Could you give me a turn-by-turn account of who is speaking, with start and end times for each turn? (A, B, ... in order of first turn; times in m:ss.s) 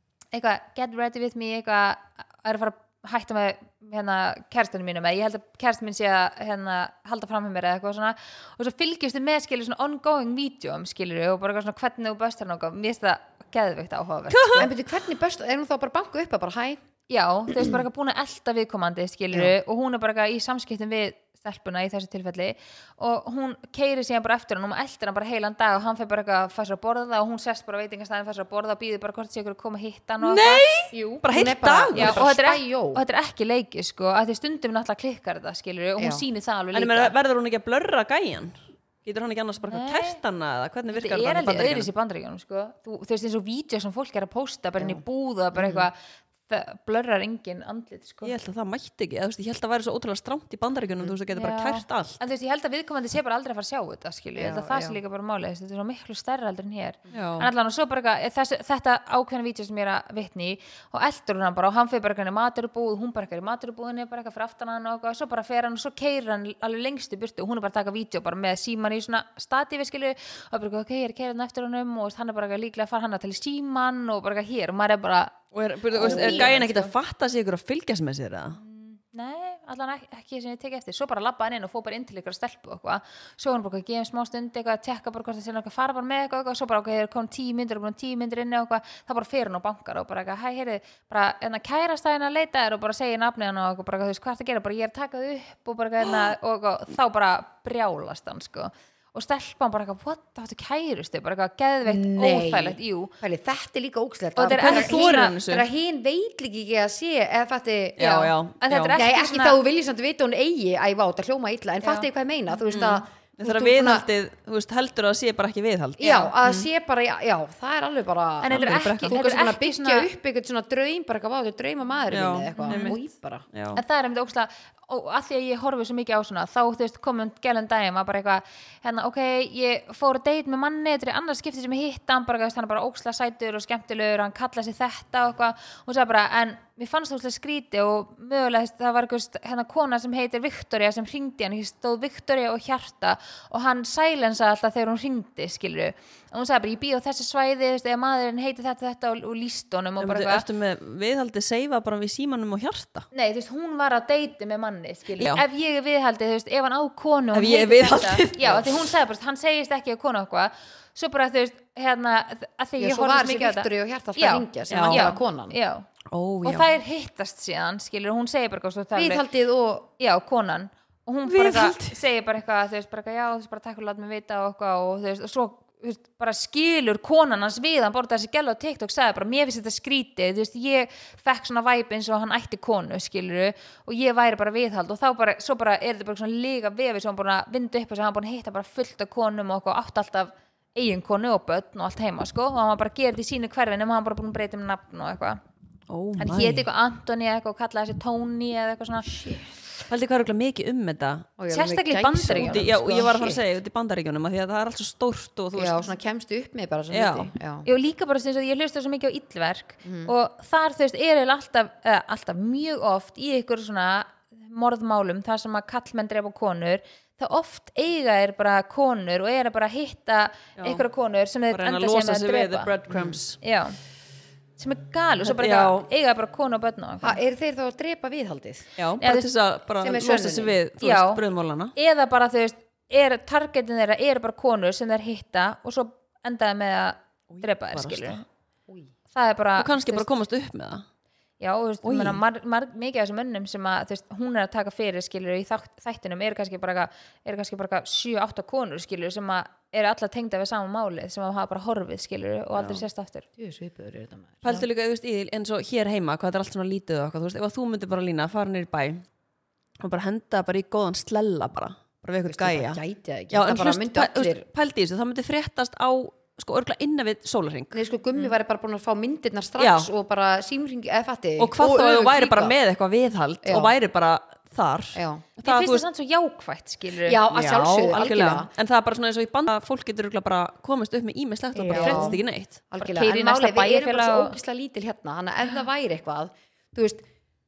0:00.3-0:14.7 A
0:14.3-0:14.7 B
0:14.6-0:16.8 C
0:17.1-0:31.2 A
0:30.2-0:32.2 B
0:31.3-0:33.0 C
0:31.9-0:37.1 A
0:36.0-0:36.2 C
0:36.7-0:41.9 B
0:39.7-0:40.2 A
0:40.9-0:48.3 A
0:44.8-0:45.0 C
0:45.6-0:45.9 C
0:48.2-0:52.2 B
0:51.3-1:16.9 A
0:54.4-0:55.0 C
0:57.1-0:57.5 B
1:15.5-1:18.6 B
1:16.0-1:16.6 C
1:18.6-1:43.1 A
1:36.1-1:36.3 B
1:41.8-1:48.3 C
1:44.4-1:45.4 A
1:44.5-1:45.7 B
1:48.0-1:49.0 B
1:48.0-1:49.6 A
1:48.9-1:54.1 C
1:52.7-1:56.7 B
1:56.0-2:03.4 C
1:58.4-2:00.1 A
1:58.5-1:59.2 B
2:02.1-2:03.0 B
2:02.6-2:03.0 A
2:03.5-2:03.8 B
2:03.8-2:30.4 A
2:30.0-2:33.1 B
2:33.1-2:45.9 A
2:35.2-2:35.4 B
2:37.3-2:38.8 B
2:38.4-2:38.7 C
2:42.8-2:45.6 C
2:44.7-2:45.1 B
2:46.1-2:46.7 B
2:46.4-2:49.2 A
2:48.9-2:49.9 C
2:50.0-3:15.4 A
2:51.3-2:52.0 B
3:15.9-3:16.7 B
3:16.2-3:19.1 A
3:19.1-3:19.7 C
3:19.9-3:21.3 B
3:21.4-3:23.4 C
3:21.5-3:22.7 A
3:22.4-3:25.9 B
3:25.6-3:27.7 C
3:26.9-3:27.3 B
3:27.6-3:42.7 A
3:29.8-3:30.1 C
3:40.6-3:40.8 B
3:41.5-3:43.4 B
3:42.9-3:43.2 C
3:43.4-3:43.8 A
3:44.6-3:47.2 A
3:45.3-3:45.9 B
3:47.0-3:48.7 C
3:48.8-3:51.7 B
3:49.0-3:49.3 A
3:49.8-3:50.6 C
3:50.8-3:51.2 A
3:51.8-3:58.2 A
3:57.3-3:58.2 B
3:59.1-4:00.1 A
3:59.6-4:00.9 B
4:01.4-4:13.3 A
4:01.8-4:02.2 B
4:12.6-4:12.8 B
4:13.4-4:14.7 C
4:14.4-4:19.0 B
4:19.8-4:22.8 B
4:22.2-4:24.4 C
4:23.3-4:27.8 B
4:27.7-4:32.6 C
4:29.6-4:29.9 B
4:31.4-4:35.8 B
4:33.4-4:33.7 C
4:34.9-4:35.2 C
4:35.4-4:37.2 A
4:37.1-4:38.5 C
4:37.3-4:42.7 B
4:41.6-4:42.2 A
4:41.7-4:47.0 C
4:42.8-4:44.4 A